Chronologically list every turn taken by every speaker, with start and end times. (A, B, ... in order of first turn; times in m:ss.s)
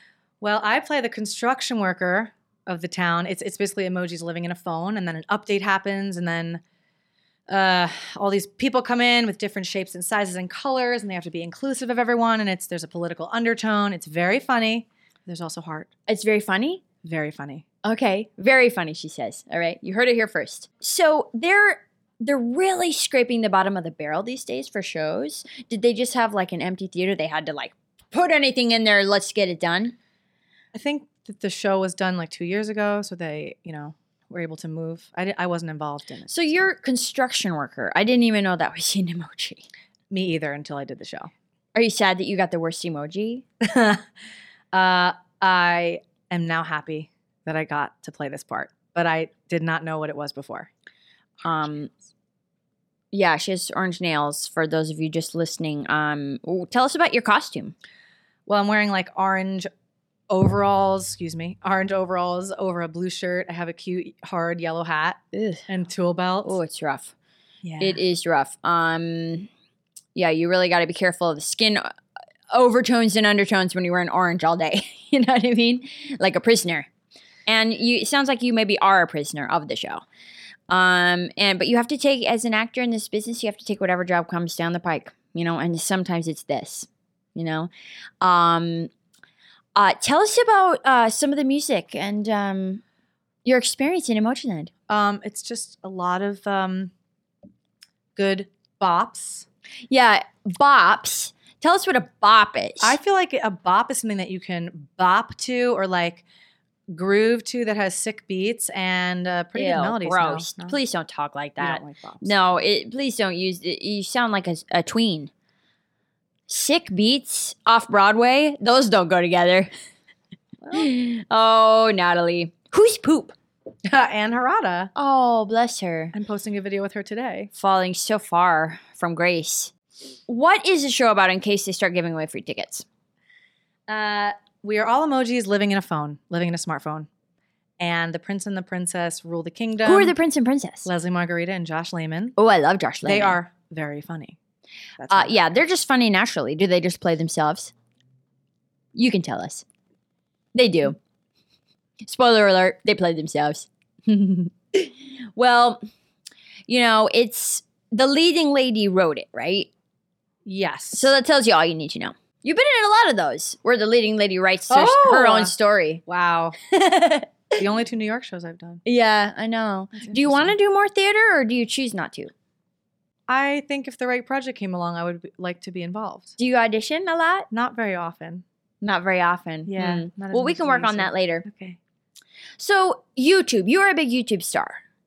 0:00.4-0:06.6 A
0:07.5-0:15.9 A
0:16.1-0:16.8 B
0:17.0-0:17.7 A
0:17.8-0:30.0 B
0:30.7-0:36.5 A
0:36.3-0:39.7 B
0:40.1-0:41.3 A
0:41.8-0:43.4 B
0:43.6-0:44.0 A
0:44.7-0:50.7 A
0:51.4-0:51.9 B
0:53.1-0:57.8 B
0:58.5-0:59.7 A
1:00.3-1:06.6 A
1:05.3-1:05.7 B
1:06.4-1:07.1 B
1:07.6-1:08.0 A
1:07.8-1:09.5 B
1:10.2-1:11.9 B
1:12.5-1:16.9 B
1:17.5-1:20.0 B
1:20.7-1:27.7 B
1:28.2-1:28.9 B
1:29.8-1:32.8 B
1:33.4-1:34.7 B
1:34.9-1:36.9 A
1:38.2-1:39.5 A
1:39.9-1:43.0 B
1:42.8-1:46.2 A
1:46.9-1:50.8 A
1:49.6-1:55.3 B
1:51.6-1:52.4 A
1:56.5-1:59.7 B
2:00.6-2:00.9 A
2:00.7-2:03.3 B
2:03.9-2:04.9 A
2:05.0-2:06.1 B
2:06.1-2:07.5 A
2:07.5-2:09.7 B
2:10.3-2:12.8 B
2:13.9-2:17.1 A
2:17.8-2:20.2 A
2:19.8-2:20.9 B
2:20.8-2:22.4 A
2:22.4-2:23.4 B
2:23.0-2:24.4 A
2:25.0-2:25.5 A
2:25.1-2:27.7 B
2:29.0-2:29.6 B
2:30.6-2:31.0 B
2:32.0-2:35.8 B
2:36.7-2:39.7 B
2:40.4-2:41.1 A
2:40.9-2:46.0 B
2:44.7-2:45.5 A
2:46.1-2:46.6 A
2:46.7-2:47.3 B
2:47.6-2:48.8 A
2:48.8-2:52.3 B
2:50.0-2:50.6 A
2:53.3-2:56.4 A
2:56.4-2:57.5 B
2:57.5-2:58.4 A
2:58.8-3:01.5 B
2:59.7-3:01.8 A
3:02.6-3:04.8 B